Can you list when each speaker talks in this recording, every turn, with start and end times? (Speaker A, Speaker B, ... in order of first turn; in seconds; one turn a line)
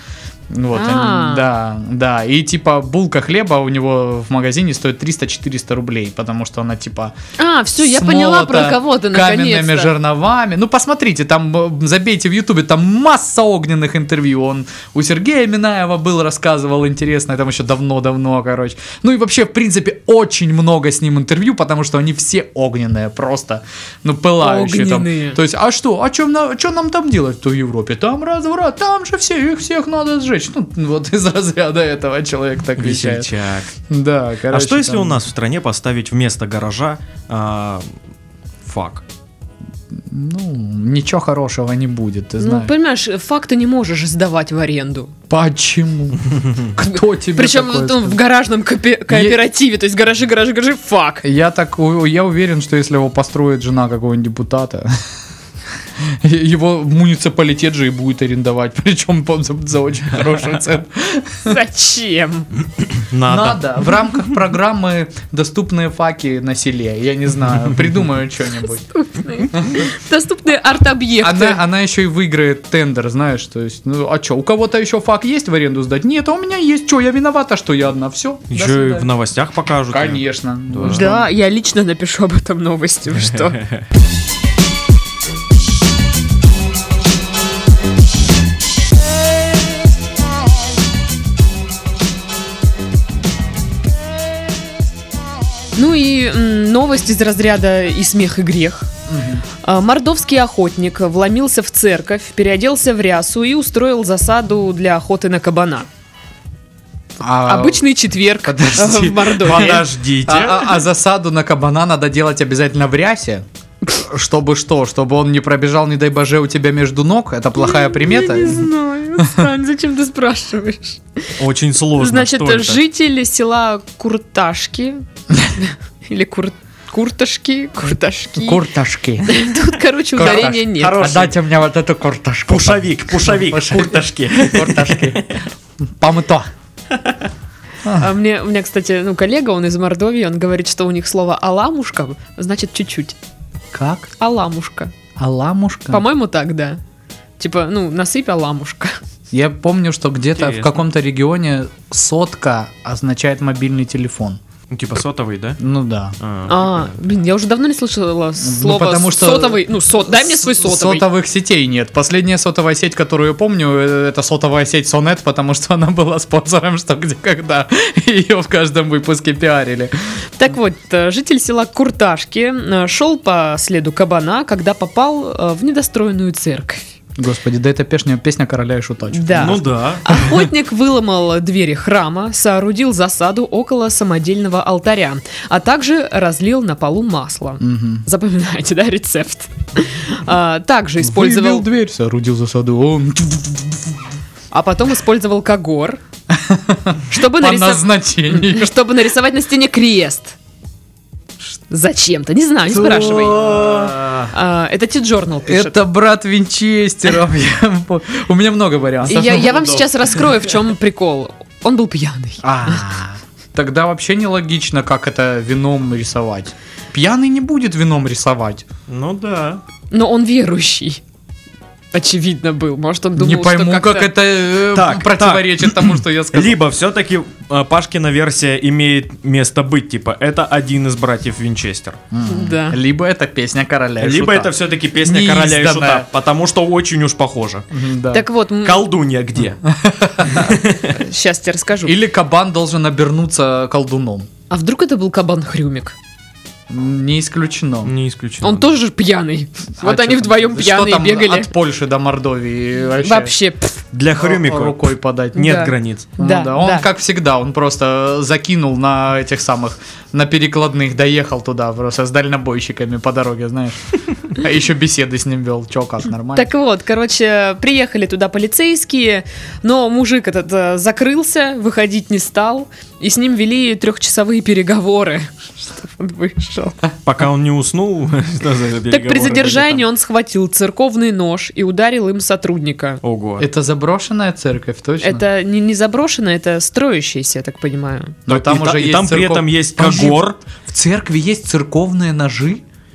Speaker A: 0.5-7.1
Speaker B: 0.7-1.5
Speaker B: 7.4-9.9
Speaker A: 7.8-33.3
Speaker B: 24.4-25.4
Speaker C: 32.8-33.7
Speaker A: 33.9-35.2
Speaker C: 34.5-37.9
Speaker C: 38.6-39.0
Speaker A: 39.9-42.7
Speaker B: 42.4-45.1
Speaker A: 45.3-48.2
Speaker B: 47.3-51.2
Speaker A: 49.1-49.4
Speaker A: 51.2-54.9
Speaker A: 56.0-61.6
Speaker B: 61.4-62.5
Speaker C: 62.9-64.1
Speaker A: 63.2-68.8
Speaker B: 68.9-71.6
Speaker A: 69.5-69.8
Speaker A: 71.2-79.1
Speaker C: 78.5-81.1
Speaker A: 79.9-81.3
Speaker B: 80.9-83.6
Speaker C: 83.2-83.8
Speaker B: 95.7-98.9
Speaker A: 99.1-99.4
Speaker B: 99.6-105.9
Speaker A: 107.2-107.9
Speaker B: 107.4-109.8
Speaker A: 108.4-118.7
Speaker C: 109.4-110.8
Speaker B: 117.6-121.3
Speaker A: 119.2-119.5
Speaker C: 121.4-122.8
Speaker B: 122.0-128.6
Speaker A: 128.4-129.3
Speaker B: 129.2-130.9
Speaker A: 130.1-135.2
Speaker C: 130.2-131.3
Speaker C: 132.5-135.5
Speaker A: 136.0-136.5
Speaker A: 137.8-138.1
Speaker B: 137.9-143.2
Speaker A: 143.7-144.1
Speaker B: 144.2-144.9
Speaker A: 145.2-146.0
Speaker B: 145.9-146.8
Speaker B: 147.4-149.0
Speaker A: 149.3-154.4
Speaker C: 150.3-150.8
Speaker C: 154.7-155.6
Speaker A: 155.6-156.2
Speaker C: 156.2-156.9
Speaker B: 156.5-161.1
Speaker A: 158.4-169.9
Speaker B: 170.4-176.8
Speaker A: 177.2-179.7
Speaker B: 179.1-191.7
Speaker C: 179.3-180.3
Speaker A: 187.6-188.0
Speaker A: 191.0-194.0
Speaker B: 194.5-196.0
Speaker A: 196.3-198.7
Speaker B: 197.1-200.4
Speaker B: 201.7-203.4
Speaker A: 202.7-204.1
Speaker C: 203.0-204.3
Speaker B: 204.3-205.8
Speaker A: 205.5-209.6
Speaker B: 209.1-212.9
Speaker C: 209.1-210.4
Speaker A: 212.4-218.6
Speaker C: 218.9-219.6
Speaker B: 219.9-221.0
Speaker B: 221.9-224.1
Speaker A: 223.2-226.6
Speaker C: 224.7-232.0
Speaker A: 232.1-236.1
Speaker B: 232.2-232.8
Speaker C: 234.0-237.7
Speaker A: 237.7-238.2
Speaker B: 238.1-238.8
Speaker C: 238.6-239.6
Speaker A: 239.6-240.6
Speaker C: 240.2-241.0
Speaker B: 240.9-241.9
Speaker A: 241.8-244.3
Speaker B: 244.5-245.9
Speaker A: 246.7-247.9
Speaker C: 247.8-248.8
Speaker B: 248.4-251.5
Speaker A: 249.8-253.3
Speaker B: 253.0-253.8
Speaker C: 253.9-256.1
Speaker A: 254.1-255.6
Speaker B: 255.3-256.9
Speaker A: 256.2-266.5
Speaker B: 266.3-276.8
Speaker C: 277.0-279.8
Speaker B: 278.9-283.0
Speaker C: 283.0-283.5
Speaker A: 283.4-285.2
Speaker B: 285.0-288.2
Speaker A: 288.3-292.6
Speaker C: 288.3-290.4